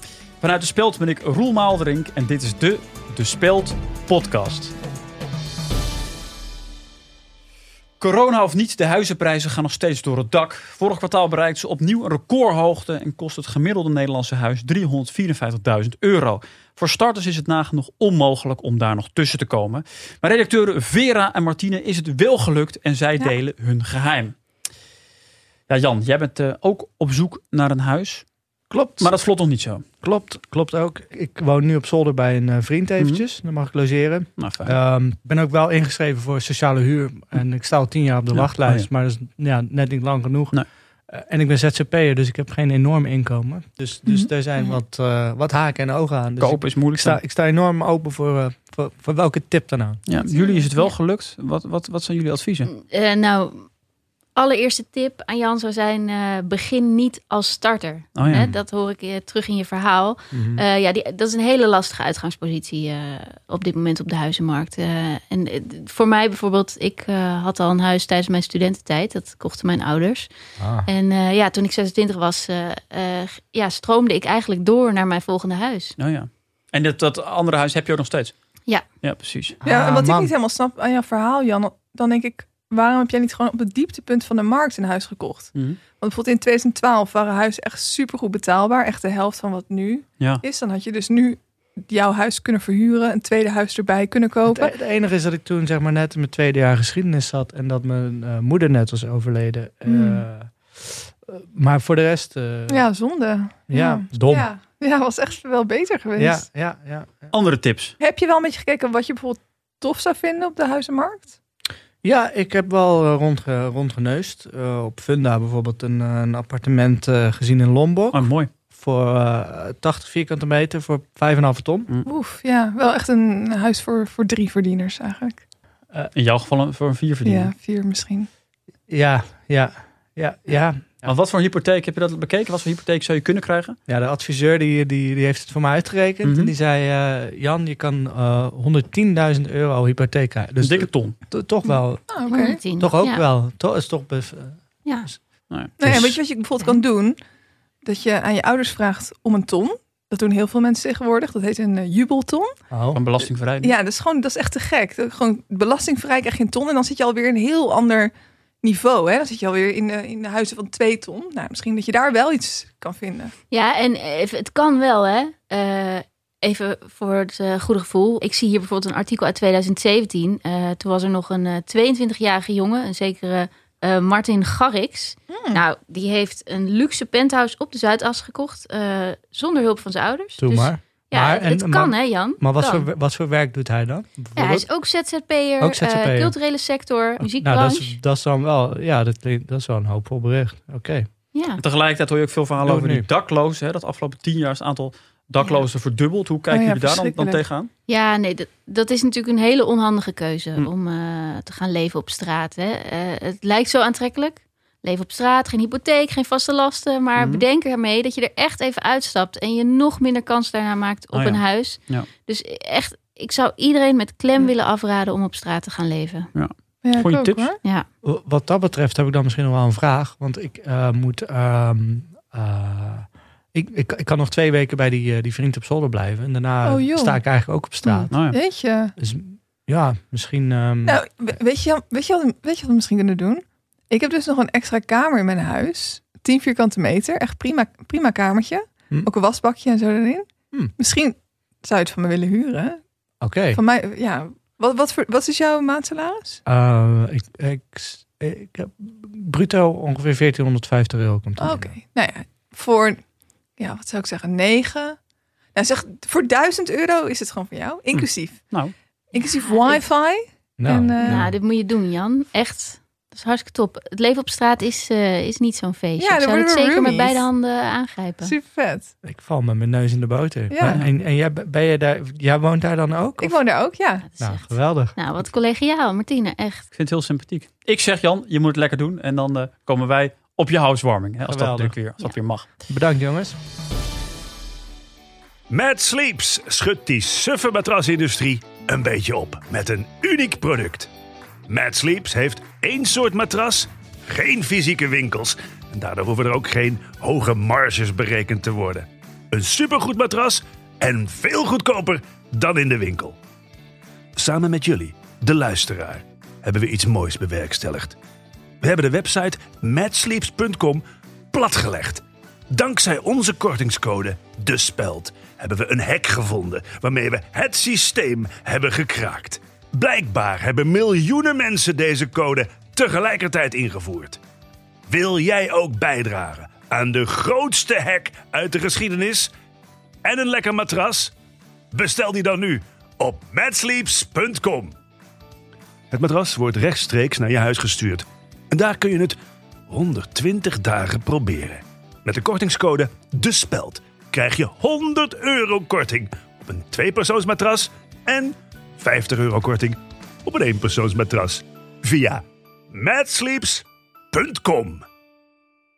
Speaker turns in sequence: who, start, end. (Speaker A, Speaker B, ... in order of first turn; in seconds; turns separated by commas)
Speaker A: 0.4-4.8, Speaker A: 8.0-24.4, Speaker A: 25.7-28.2, Speaker B: 28.7-29.2, Speaker A: 29.0-29.8, Speaker B: 30.0-50.0, Speaker A: 34.4-34.8, Speaker A: 38.3-38.9, Speaker A: 46.4-47.2, Speaker A: 50.1-52.7, Speaker C: 50.1-50.9, Speaker C: 52.7-53.7, Speaker C: 54.4-70.3, Speaker A: 58.1-58.5, Speaker B: 58.3-58.6, Speaker B: 60.3-60.6, Speaker B: 70.6-70.9, Speaker C: 70.8-76.0, Speaker A: 76.0-78.3, Speaker A: 79.0-79.6, Speaker B: 79.6-80.3, Speaker D: 79.7-94.7, Speaker B: 94.5-102.9, Speaker D: 99.9-100.2, Speaker D: 102.7-106.4, Speaker B: 103.7-104.5, Speaker B: 106.2-107.3, Speaker A: 107.3-108.0, Speaker D: 108.0-111.3, Speaker B: 112.0-121.9, Speaker A: 118.1-118.5, Speaker D: 122.1-125.4, Speaker A: 126.2-127.5, Speaker D: 127.2-128.3, Speaker B: 128.9-131.0, Speaker A: 131.0-133.8, Speaker B: 133.9-142.2, Speaker A: 136.2-136.5, Speaker A: 140.6-141.2, Speaker D: 142.1-142.6, Speaker C: 142.3-143.2, Speaker B: 142.8-145.2, Speaker D: 145.8-147.2, Speaker B: 145.8-146.2, Speaker D: 147.8-152.5, Speaker B: 152.7-153.0, Speaker A: 152.9-153.8, Speaker D: 153.6-163.3, Speaker C: 163.5-182.9, Speaker D: 175.3-175.6, Speaker B: 180.4-184.7, Speaker C: 184.4-187.9, Speaker B: 185.6-186.4, Speaker B: 187.2-191.1, Speaker C: 191.3-191.6, Speaker A: 191.6-197.7, Speaker B: 192.6-193.1, Speaker D: 196.5-197.5, Speaker C: 197.9-216.3, Speaker A: 207.2-207.4, Speaker A: 211.1-212.1, Speaker A: 216.3-217.5, Speaker D: 216.8-217.6, Speaker B: 218.0-228.1, Speaker D: 226.6-227.2, Speaker A: 228.1-228.4, Speaker D: 228.3-228.9, Speaker B: 229.0-231.0, Speaker D: 230.9-242.8, Speaker B: 243.2-243.6, Speaker D: 243.5-246.4, Speaker B: 246.5-251.8, Speaker D: 251.4-253.0, Speaker D: 253.6-255.0, Speaker D: 255.6-258.5, Speaker A: 258.0-258.7, Speaker D: 259.1-261.3, Speaker C: 259.2-259.8, Speaker B: 260.6-261.4, Speaker C: 261.0-268.3, Speaker D: 266.0-267.3, Speaker D: 268.2-268.9, Speaker B: 269.0-273.4, Speaker D: 270.5-270.8, Speaker A: 270.6-270.9, Speaker D: 273.2-274.1, Speaker C: 274.1-276.7, Speaker B: 274.2-275.0, Speaker A: 276.7-282.5, Speaker B: 281.2-281.8, Speaker B: 282.7-283.4, Speaker E: 285.5-290.9, Speaker E: 291.5-293.6, Speaker E: 294.2-298.8, Speaker E: 299.3-303.1, Speaker E: 304.2-308.0, Speaker E: 308.6-310.8, Speaker E: 311.3-312.0, Speaker E: 312.6-324.2, Speaker E: 324.9-329.3, Speaker E: 330.1-331.1, Speaker E: 331.8-334.7, Speaker E: 335.9-339.1, Speaker E: 339.7-349.7, Speaker E: 350.3-352.2, Speaker E: 352.8-353.6, Speaker E: 354.1-354.8